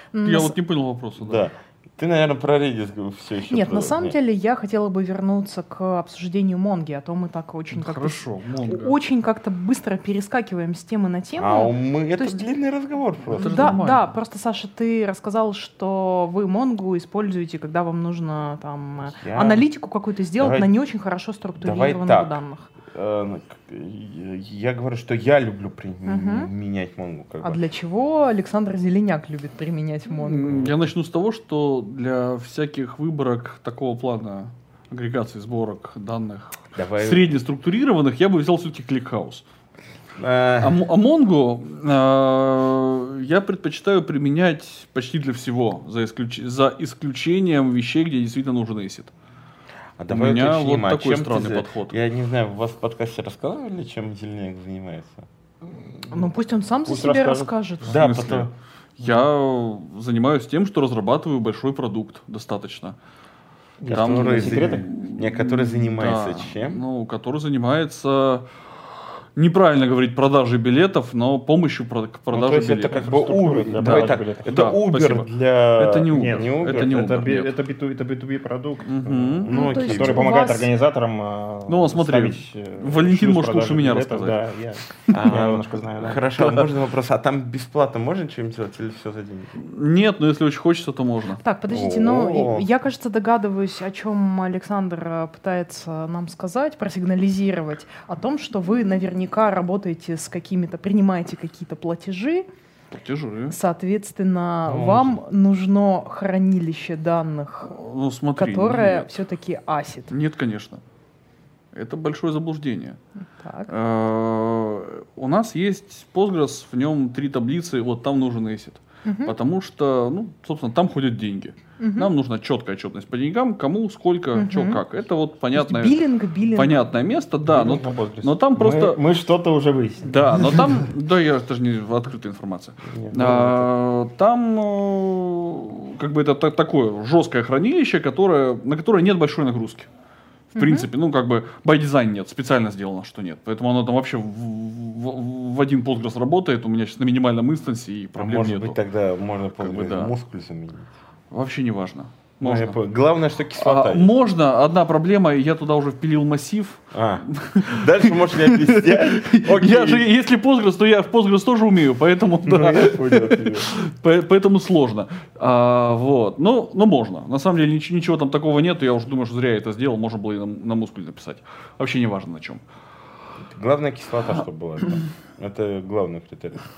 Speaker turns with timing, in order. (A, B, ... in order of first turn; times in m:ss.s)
0:00.1-0:00.6 A
0:00.2-0:01.4 B
0:01.2-0:04.2 C
0:03.5-0:12.4 A
0:07.7-0:09.0 B
0:11.4-0:13.8 C
0:13.3-0:14.1 B
0:13.3-0:22.7 A
0:19.2-0:19.6 C
0:20.4-0:20.7 C
0:21.6-0:27.6 C
0:26.0-0:26.5 A
0:27.4-0:30.7 A
0:30.1-0:39.4 B
0:36.8-0:37.3 C
0:40.2-0:40.8 C
0:40.6-0:49.1 B
0:50.0-0:55.2 C
0:50.1-0:52.0 B
0:56.1-0:58.0 A
0:56.9-0:58.5 C
0:57.9-1:03.0 B
1:03.8-1:04.9 D
1:03.9-1:06.8 C
1:03.9-1:08.5 B
1:09.4-1:13.2 B
1:12.3-1:17.1 C
1:12.9-1:14.6 D
1:13.8-1:17.5 B
1:16.1-1:26.6 D
1:18.8-1:19.5 B
1:19.4-1:20.5 C
1:19.5-1:20.7 A
1:21.7-1:24.4 B
1:25.1-1:29.6 C
1:29.6-1:31.4 B
1:31.4-1:42.5 A
1:31.7-1:32.7 C
1:42.9-1:43.6 B
1:43.5-1:47.8 A
1:44.6-1:45.2 C
1:47.7-1:49.1 B
1:48.4-1:50.1 A
1:50.1-1:50.8 B
1:51.7-1:53.0 B
1:53.4-1:53.7 A
1:53.7-2:06.0 B
1:59.0-1:59.4 A
2:01.8-2:02.1 A
2:04.3-2:04.8 A
2:05.5-2:06.8 A
2:06.5-2:09.0 B
2:07.5-2:10.7 D
2:10.0-2:19.9 B
2:13.0-2:13.7 D
2:20.5-2:28.8 B
2:20.6-2:20.9 A
2:28.2-2:30.9 C
2:29.6-2:30.1 B
2:31.3-2:32.8 B
2:32.4-2:34.1 C
2:33.6-2:52.6 B
2:36.9-2:40.1 C
2:42.4-2:43.7 C
2:53.5-2:56.6 C